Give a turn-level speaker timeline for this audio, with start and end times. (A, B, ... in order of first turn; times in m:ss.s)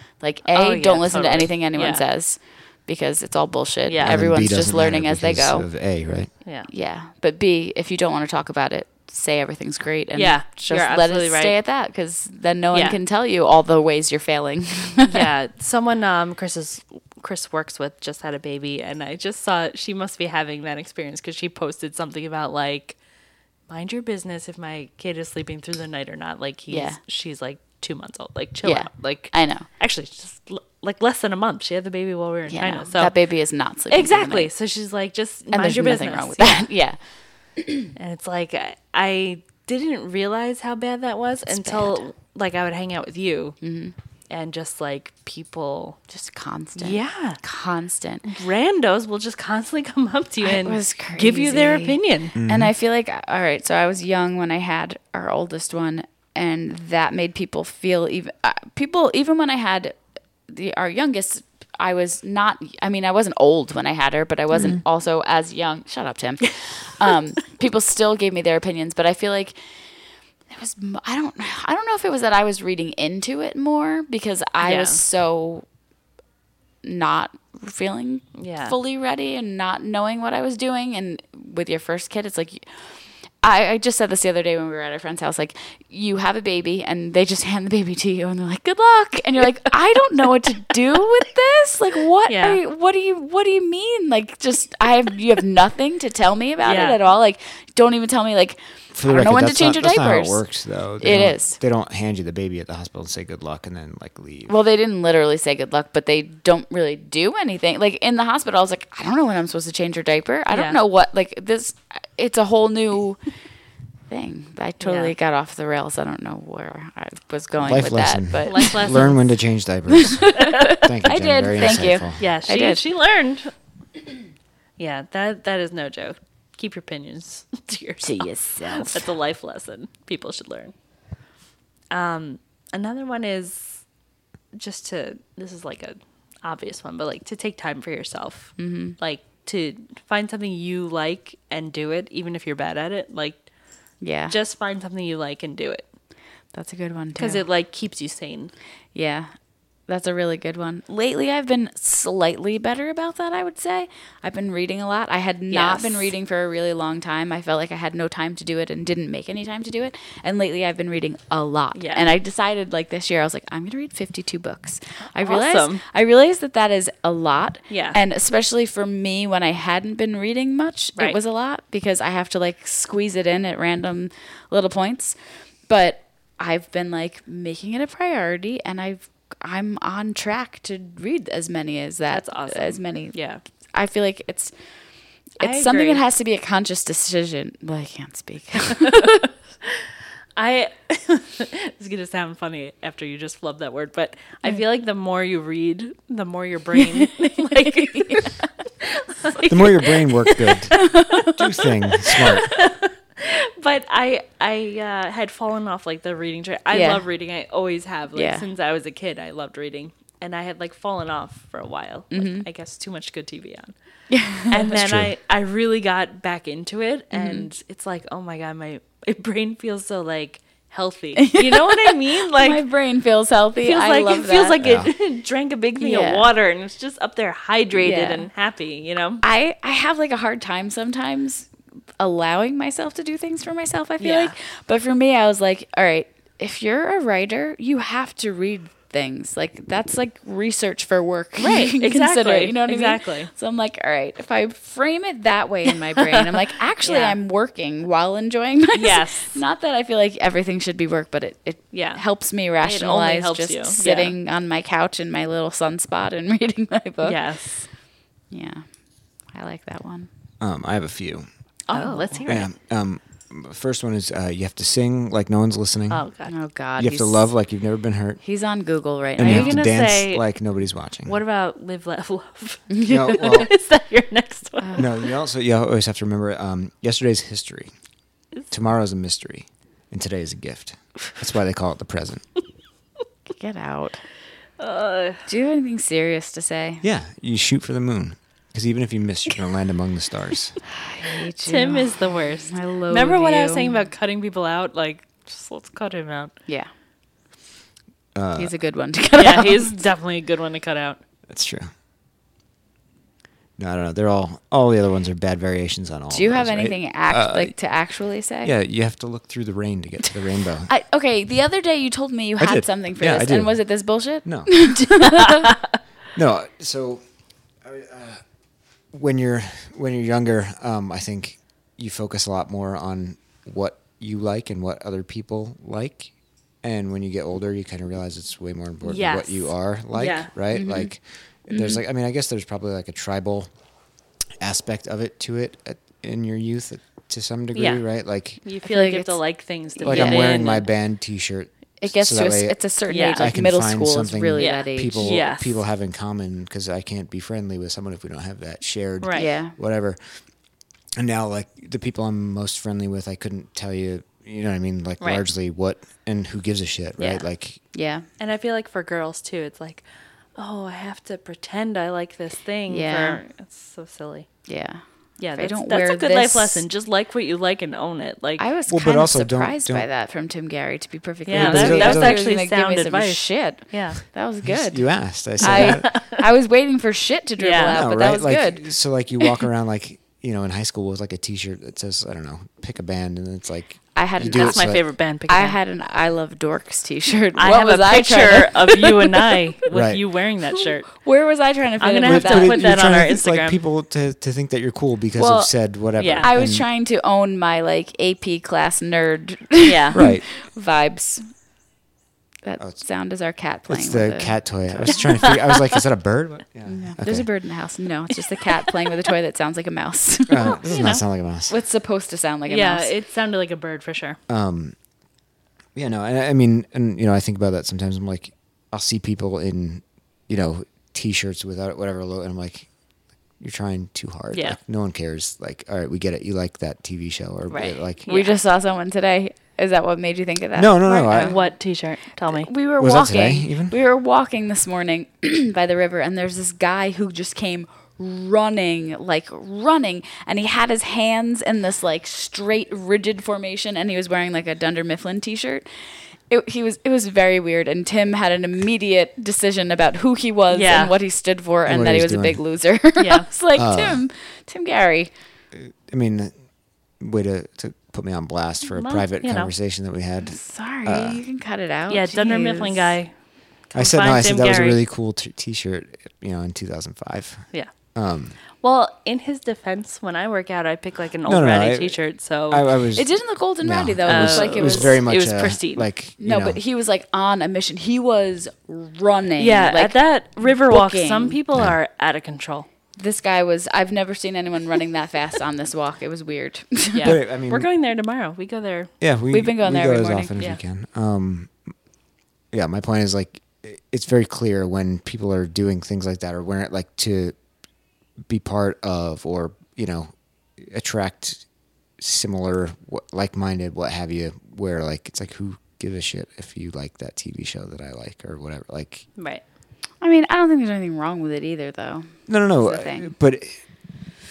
0:00.2-0:05.6 A
0:00.5-0:02.0 B
0:03.9-0:04.2 B
0:04.0-0:06.3 C
0:06.4-0:06.7 B
0:06.7-0:15.3 A
0:10.2-0:11.5 B
0:15.1-0:23.0 B
0:23.7-0:33.1 B
0:26.7-0:27.0 A
0:28.6-0:29.7 A
0:32.5-0:34.5 A
0:33.9-0:36.7 B
0:35.5-0:37.0 A
0:37.6-0:37.9 A
0:38.0-0:43.6 B
0:41.5-0:42.0 A
0:43.6-0:43.9 A
0:44.3-0:46.0 B
0:46.1-0:48.3 A
0:46.8-0:47.4 B
0:48.2-0:52.4 B
0:50.4-1:00.0 A
0:52.4-0:52.7 C
1:00.5-1:09.6 A
1:10.5-1:15.7 A
1:14.6-1:15.0 B
1:16.8-1:22.6 A
1:18.4-1:18.8 B
1:23.4-1:40.4 A
1:32.3-1:32.6 B
1:36.6-1:37.0 B
1:38.9-1:44.5 C
1:41.0-1:41.6 A
1:44.5-1:53.2 A
1:50.5-1:50.8 B
1:54.1-1:59.2 A
1:54.8-1:55.1 B
1:57.6-2:02.3 C
1:58.5-1:59.2 B
1:59.9-2:02.8 A
2:00.4-2:00.8 B
2:02.2-2:03.5 B
2:04.8-2:10.7 B
2:08.0-2:09.0 A
2:11.9-2:13.8 B
2:14.6-2:23.4 B
2:18.6-2:19.0 A
2:24.0-2:24.3 A
2:24.3-2:25.9 B
2:26.5-2:27.4 A
2:27.2-2:28.5 B
2:28.9-2:29.3 A
2:29.9-2:55.2 A
2:35.5-2:36.1 B
2:41.8-2:42.1 B
2:45.1-2:45.8 B
2:47.7-2:48.0 B
2:55.7-3:03.2 A
3:02.1-3:03.4 B
3:03.7-3:04.5 A
3:05.4-3:09.2 A
3:05.4-3:06.0 B
3:08.9-3:20.6 B
3:17.0-3:18.3 A
3:19.5-3:22.5 C
3:20.7-3:21.4 A
3:21.2-3:33.7 B
3:26.7-3:27.0 A
3:28.2-3:28.4 A
3:32.1-3:32.4 A
3:34.1-3:34.7 A
3:34.5-3:42.6 B
3:34.7-3:35.1 C
3:37.1-3:37.5 A
3:41.2-3:44.6 A
3:43.6-3:49.2 B
3:44.6-3:44.9 C
3:45.8-3:46.3 A
3:47.8-3:48.3 A
3:49.2-4:17.2 A
3:54.0-3:54.3 B
4:01.4-4:03.3 B
4:06.0-4:07.2 B
4:08.7-4:09.4 B
4:11.7-4:12.0 B
4:12.6-4:14.2 B
4:17.0-4:17.7 B
4:18.3-4:18.7 A
4:19.3-4:20.1 A
4:20.4-4:21.3 C
4:21.7-4:22.5 B
4:21.7-4:22.3 A
4:22.3-4:26.1 C
4:25.9-4:26.3 B
4:26.3-4:27.3 A
4:26.8-4:28.2 C
4:28.2-4:29.6 A
4:29.2-4:31.2 C
4:29.2-4:30.3 B
4:31.0-4:35.0 B
4:32.7-4:33.5 A
4:32.9-4:33.5 C
4:34.8-4:37.7 C
4:38.5-4:42.2 C
4:43.4-4:44.0 A
4:44.6-4:45.3 B
4:45.3-4:46.8 A
4:46.8-4:50.6 C
4:50.8-4:53.7 A
4:51.4-4:56.3 B
4:58.2-4:58.5 C
4:58.4-4:59.8 A
4:59.2-5:01.0 B
5:01.3-5:01.7 C
5:03.6-5:07.5 C
5:06.1-5:08.5 A
5:08.4-5:10.7 C
5:10.7-5:15.6 A
5:12.4-5:13.6 C
5:14.2-5:14.7 C
5:16.1-5:17.0 C
5:17.6-5:18.2 C
5:18.9-5:26.1 C
5:26.6-5:33.5 C
5:28.8-5:30.3 B
5:30.5-5:30.9 A
5:31.5-5:31.8 A
5:34.4-5:38.4 C
5:37.5-5:37.8 B
5:38.4-5:40.7 B
5:38.6-5:39.2 A
5:39.8-5:40.6 A
5:39.9-5:42.6 C
5:41.8-5:45.2 A
5:42.9-5:43.3 B
5:43.1-5:50.0 C
5:44.4-5:45.6 B
5:49.0-5:49.3 B
5:49.1-5:49.5 A
5:51.0-5:57.6 C
5:55.0-5:55.2 B
5:57.0-5:57.2 B
5:57.7-5:58.0 A
5:58.2-5:59.8 B
6:00.4-6:04.3 B
6:02.7-6:03.2 A
6:04.5-6:06.6 A
6:05.2-6:08.4 B
6:08.4-6:18.6 A
6:08.7-6:09.9 C
6:11.3-6:14.0 B
6:11.3-6:12.2 C
6:14.4-6:15.9 C
6:15.4-6:16.2 B
6:17.4-6:17.8 B
6:17.7-6:24.8 C
6:24.0-6:29.4 A
6:24.2-6:25.6 B
6:27.4-6:30.9 B
6:29.7-6:30.0 C
6:30.6-6:32.7 A
6:31.8-6:33.6 B
6:32.0-6:36.6 C
6:35.2-6:35.5 A
6:36.0-6:36.3 B
6:36.2-6:41.3 A
6:39.6-6:40.0 B
6:39.9-6:40.2 C
6:42.4-6:45.1 A
6:43.7-6:47.3 C
6:44.9-6:45.6 B
6:46.6-6:50.6 A
6:50.3-6:51.5 C
6:50.4-6:51.0 B
6:51.5-6:52.9 A
6:52.5-6:54.2 B
6:54.3-6:54.8 C
6:55.8-7:02.7 C
7:03.4-7:08.1 C
7:04.3-7:04.6 B
7:07.5-7:08.4 B
7:08.1-7:11.5 A
7:10.6-7:11.4 C
7:11.1-7:12.5 B
7:12.3-7:25.7 A
7:12.8-7:13.7 C
7:26.3-7:35.1 A
7:30.5-7:30.9 B
7:31.7-7:32.4 C
7:33.0-7:33.3 B
7:33.6-7:34.0 C
7:35.5-7:36.3 C
7:37.0-7:41.2 C
7:38.7-7:39.5 B
7:40.3-7:43.0 A
7:41.9-7:43.1 B
7:43.7-7:44.8 B
7:43.7-7:48.4 C
7:48.6-7:52.7 B
7:51.2-7:56.6 C
7:53.0-7:55.0 A
7:54.0-7:55.9 B
7:56.2-8:01.4 A
7:59.4-8:02.7 B
8:03.0-8:07.2 A
8:06.9-8:08.9 B
8:07.0-8:07.7 C
8:09.0-8:11.5 C
8:09.3-8:10.3 A
8:12.5-8:17.4 C
8:18.3-8:21.4 C
8:22.0-8:29.1 C
8:29.2-8:29.4 B
8:30.0-8:33.1 A
8:32.3-8:33.6 C